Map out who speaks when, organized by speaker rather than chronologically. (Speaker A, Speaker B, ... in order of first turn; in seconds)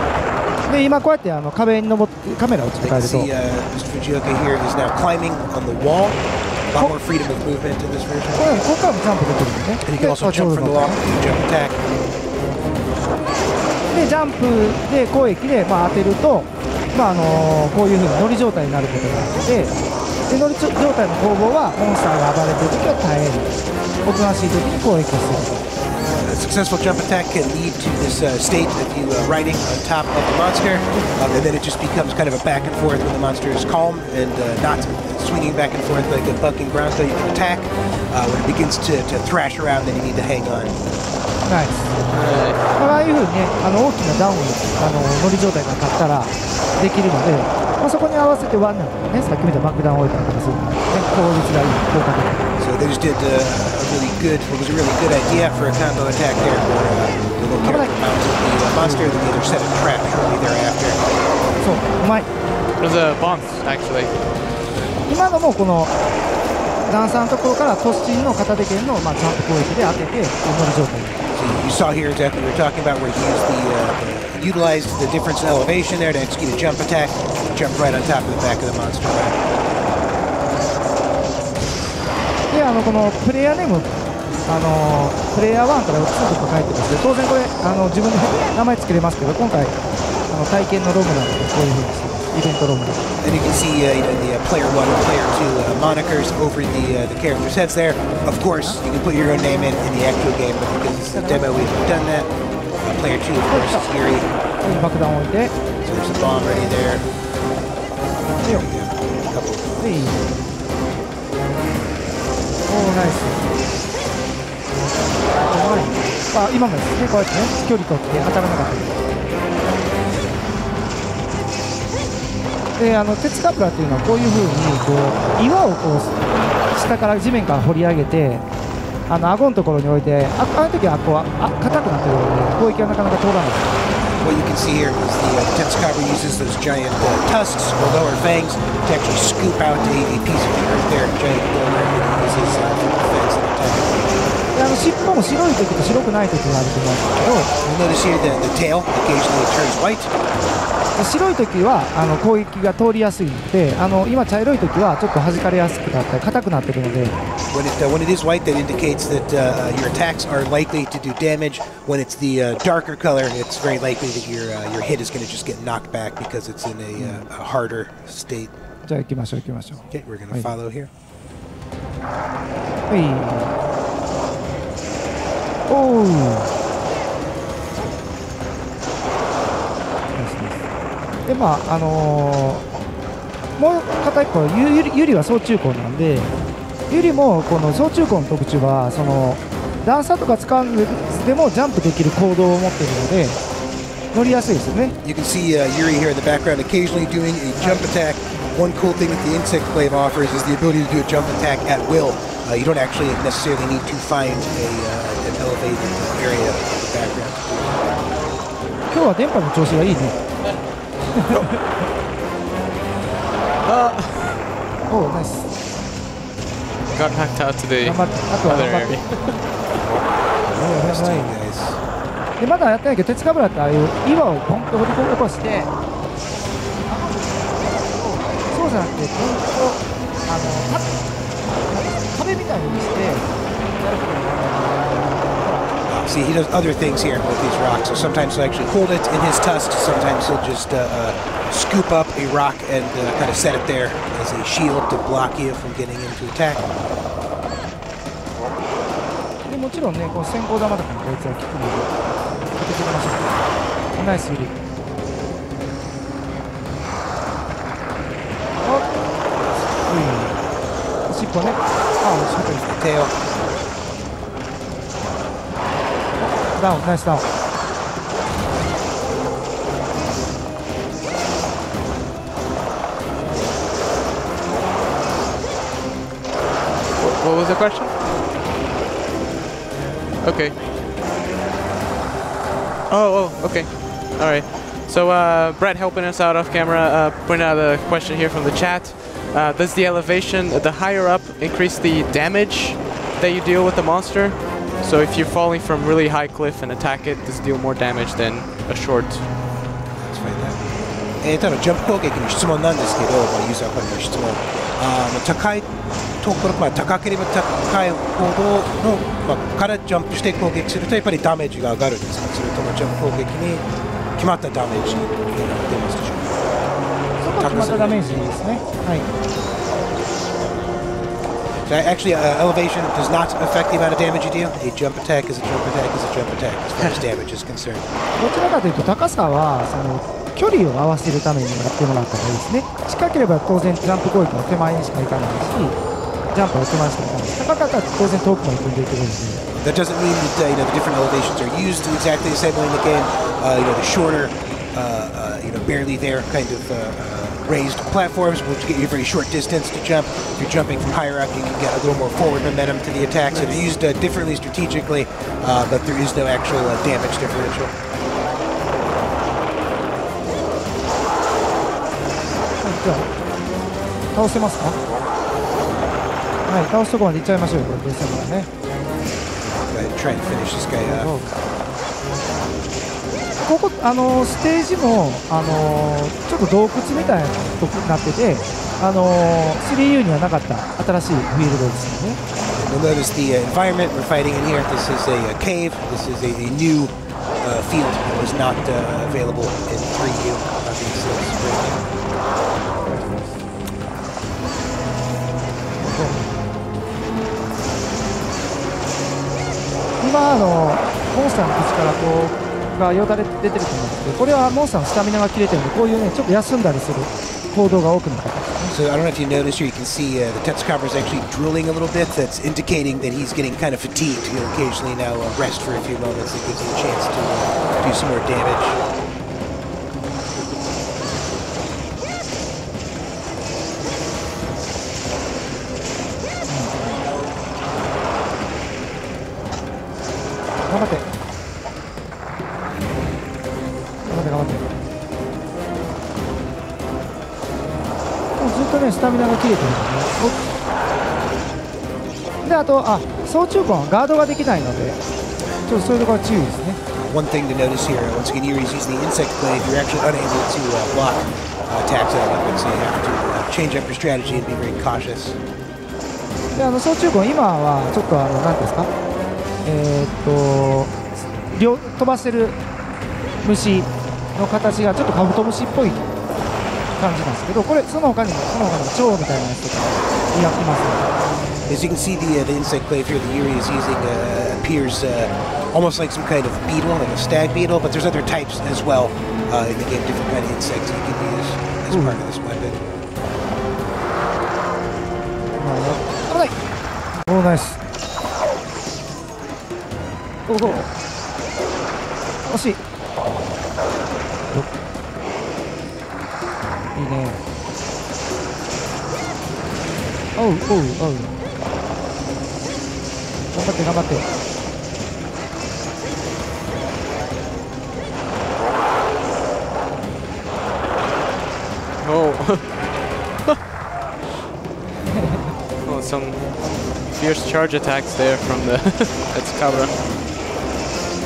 Speaker A: 0.7-3.3, 8.3-11.0, 13.9-19.7, 20.3-23.5, 24.0-25.7, 41.5-41.9, 42.8-52.5, 57.5-59.2, 61.6-62.3, 65.0-65.9, 66.8-71.2, 82.5-83.9, 84.5-89.8, 90.3-93.0, 101.2-101.4, 103.5-103.9, 104.6-105.5, 108.4-108.7, 109.8-110.2, 112.7-113.6, 115.5-119.0, 122.8-128.4, 129.1-133.7, 144.5-147.5, 150.9-157.2, 167.0-167.3, 168.8-170.5, 172.9-173.5, 175.7-176.5, 180.1-180.6, 181.2-182.7, 183.6-186.3, 186.9-193.4, 194.1-194.9, 197.6-197.8, 208.9-210.2, 211.1-211.6, 214.9-215.5, 217.8-219.0, 220.5-221.3, 222.4-225.7, 226.9-231.0, 231.7-235.0, 249.5-252.0, 252.5-254.5, 258.6-258.9, 259.9-260.4, 261.1-262.8, 266.2-267.2, 317.2-319.1, 328.1-335.8, 336.3-339.5, 362.6-363.1, 364.1-364.8, 366.5-368.5, 370.8-371.3, 373.4-382.2, 392.9-393.2, 395.8-396.3, 400.0-408.7, 426.5-426.8, 430.7-431.0, 434.1-434.6, 438.4-440.4, 442.4-445.0, 445.6-446.8, 456.5-458.9, 459.6-462.6, 463.4-466.0, 467.0-471.1, 481.9-482.2, 485.5-486.6, 487.2-487.8, 490.5-490.9, 492.4-492.8, 496.9-497.4, 500.4-501.3, 503.5-504.2
Speaker B: 2.8-8.5, 9.8-11.8, 26.0-40.8, 52.6-61.0, 71.3-79.4, 93.2-102.3, 102.8-104.3, 105.8-107.0, 108.4-110.2, 134.2-144.4, 147.6-150.1, 157.5-168.5, 169.9-170.9, 195.0-207.9, 220.5-221.8, 235.9-246.7, 262.7-263.1, 300.0-300.6, 301.2-305.7, 306.2-316.5, 317.4-318.3, 321.7-327.9, 339.6-357.7, 369.5-371.2, 382.5-391.8, 408.7-418.8, 446.9-455.4, 471.7-482.8
Speaker C: 42.1-42.6, 62.8-64.1, 213.6-214.4, 216.9-219.3, 277.0-277.9, 280.2-280.6, 282.9-299.3, 512.0-513.5, 515.8-520.0